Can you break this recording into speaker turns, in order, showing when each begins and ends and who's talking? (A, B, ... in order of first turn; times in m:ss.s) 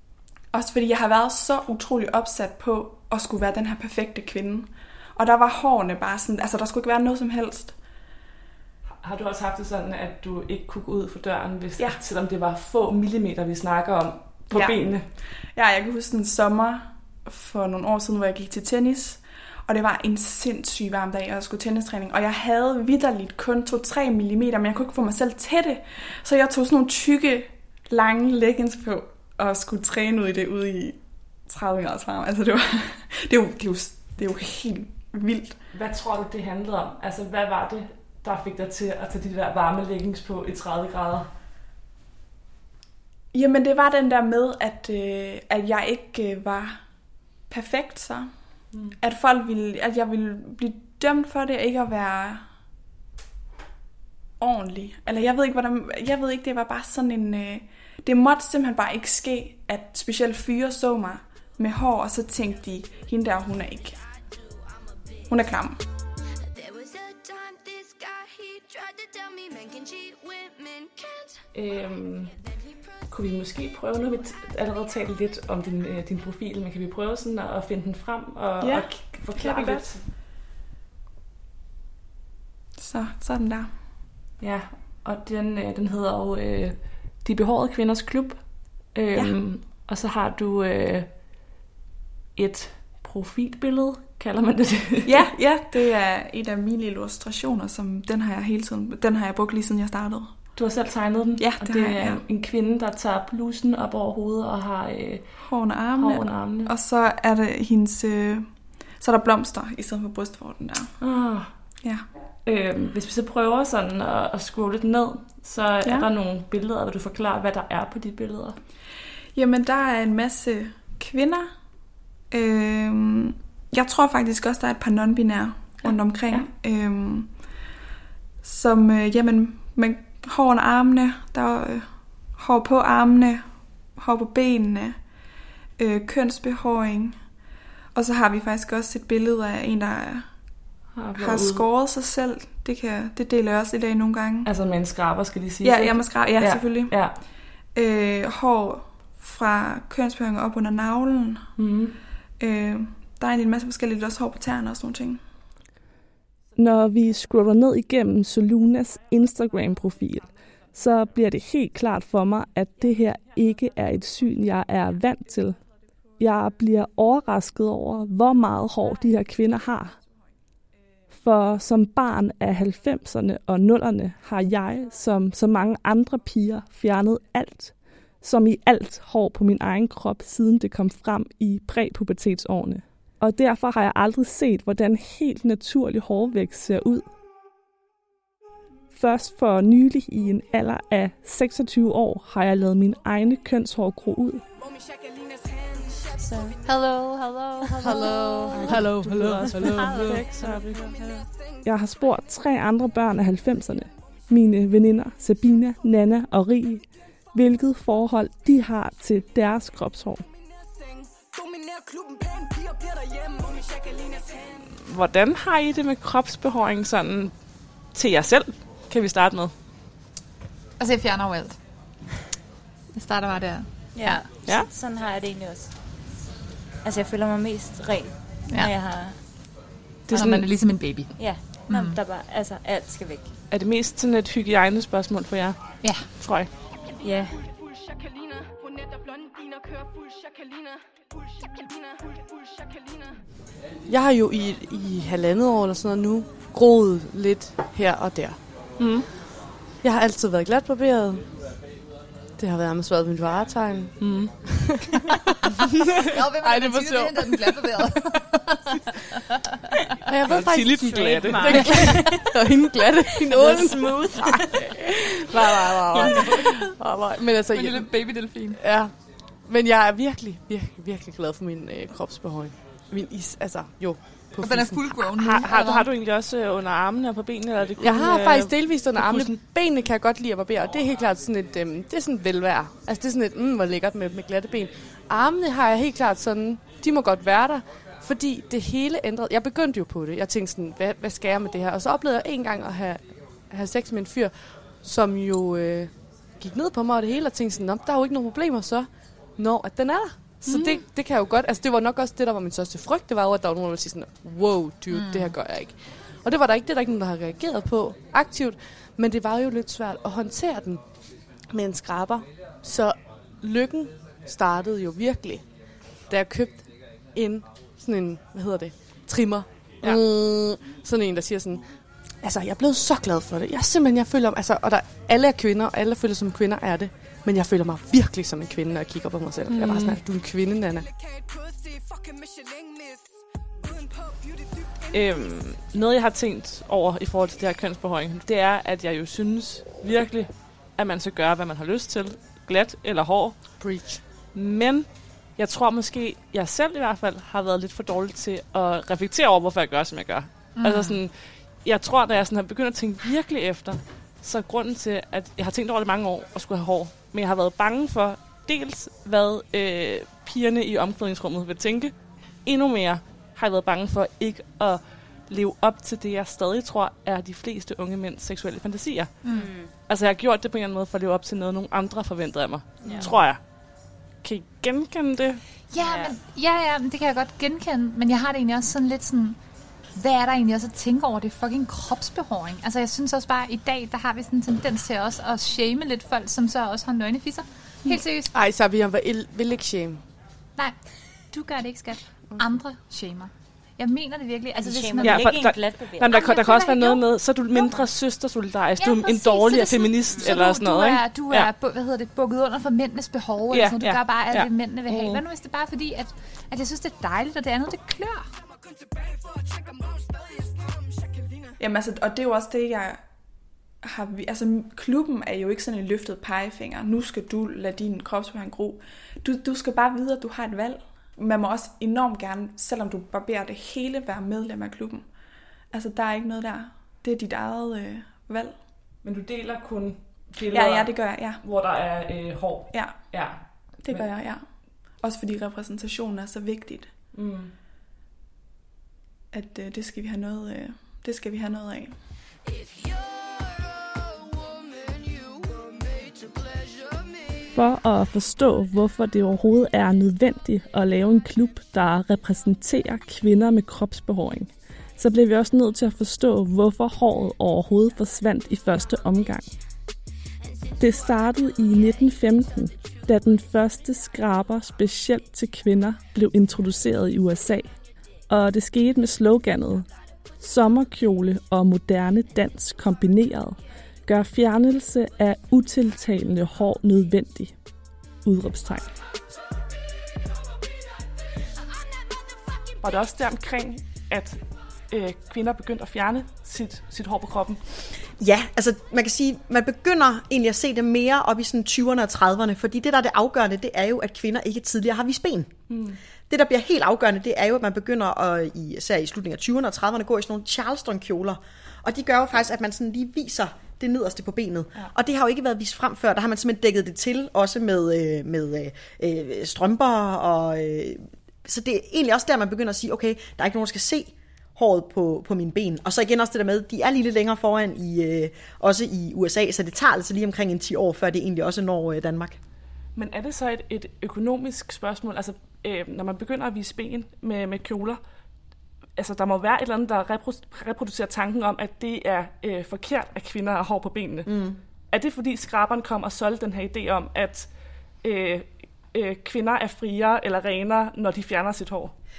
0:00.5-0:07.8 A
0:09.0-0:15.1 B
0:14.5-0:35.6 A
0:35.7-0:41.3 B
0:43.3-0:46.9 A
0:47.5-0:52.5 A
0:48.7-0:49.0 B
0:54.4-1:04.0 A
1:05.3-1:05.8 A
1:11.5-1:12.4 B
1:13.1-1:20.1 B
1:18.6-1:20.0 A
1:22.8-1:23.7 A
1:24.4-1:31.1 B
1:32.4-1:35.3 B
1:35.1-1:40.5 A
1:40.6-1:46.7 B
1:41.4-1:42.2 A
1:45.4-1:51.0 A
1:51.0-1:51.5 B
1:52.4-1:58.6 B
1:59.4-2:01.5 A
2:02.3-2:07.4 A
2:08.4-2:15.0 A
2:15.8-2:17.4 A
2:17.9-2:20.3 A
2:20.9-2:21.7 B
2:21.2-2:24.5 A
2:24.4-2:27.2 B
2:25.6-2:31.5 A
2:31.6-2:32.0 B
2:32.4-2:35.2 A
2:36.6-2:45.6 B
2:46.2-2:50.0 B
2:51.1-3:07.1 B
3:08.9-3:14.4 B
3:16.1-3:21.3 C
3:17.8-3:20.2 D
3:17.9-3:18.8 E
3:18.7-3:20.9 B
3:19.6-3:20.0 E
3:21.6-3:30.3 B
3:34.7-3:37.4 B
3:37.9-3:39.5 B
3:40.8-3:41.6 E
3:42.9-3:44.3 E
3:43.9-3:45.8 C
3:46.8-3:49.2 C
3:48.5-3:48.7 E
3:50.1-3:50.5 B
3:50.1-3:52.0 E
3:51.2-3:53.3 C
3:53.5-3:56.5 B
3:55.8-3:56.1 E
3:57.0-3:57.5 C
4:03.9-4:08.8 D
4:08.8-4:09.1 B
4:09.8-4:11.4 D
4:12.4-4:15.0 D
4:14.0-4:14.4 B
4:15.7-4:17.7 D
4:16.1-4:18.3 E
4:20.0-4:35.1 D
4:20.3-4:22.2 B
4:21.3-4:22.1 C
4:21.4-4:22.1 E
4:23.3-4:24.5 E
4:25.4-4:26.7 E
4:26.0-4:26.4 B
4:27.5-4:28.6 E
4:34.4-4:35.9 E
4:35.1-4:39.4 B
4:37.8-5:30.9 D
5:00.5-5:00.8 E
5:04.9-5:05.4 E
5:29.6-5:29.9 E
5:29.6-5:30.0 B
5:34.9-5:43.7 B
5:43.6-5:44.0 D
5:44.3-6:09.2 B
5:50.6-5:51.0 E
6:09.2-6:09.5 E
6:09.3-6:09.7 C
6:09.8-6:13.4 B
6:12.8-6:13.2 C
6:14.2-6:15.4 B
6:15.7-6:19.4 E
6:15.8-6:16.2 C
6:19.9-6:28.4 E
6:27.8-6:30.0 D
6:30.6-6:35.4 E
6:34.6-6:36.2 C
6:35.0-6:41.5 B
6:36.1-6:37.9 E
6:38.8-6:48.3 E
6:40.1-6:40.3 C
6:43.5-6:45.2 B
6:51.6-6:53.0 A
6:53.8-7:05.1 A
7:05.7-7:08.6 A
7:09.0-7:14.1 B
7:10.5-7:11.4 A
7:12.7-7:13.3 A
7:13.8-7:16.9 A
7:17.1-7:17.5 B
7:19.3-7:22.0 A
7:27.5-7:39.6 B
7:40.8-7:47.7 B
7:48.3-7:49.9 B
7:50.4-7:57.6 B
7:58.2-7:58.9 B
8:02.8-8:04.4 B
8:04.9-8:07.6 B
8:08.2-8:15.5 F
8:15.7-8:16.0 B
8:16.3-8:42.4 F
8:43.0-8:48.0 B
8:49.0-8:54.3 B
8:54.3-8:54.6 F
8:54.9-8:57.5 B
8:58.0-9:01.9 B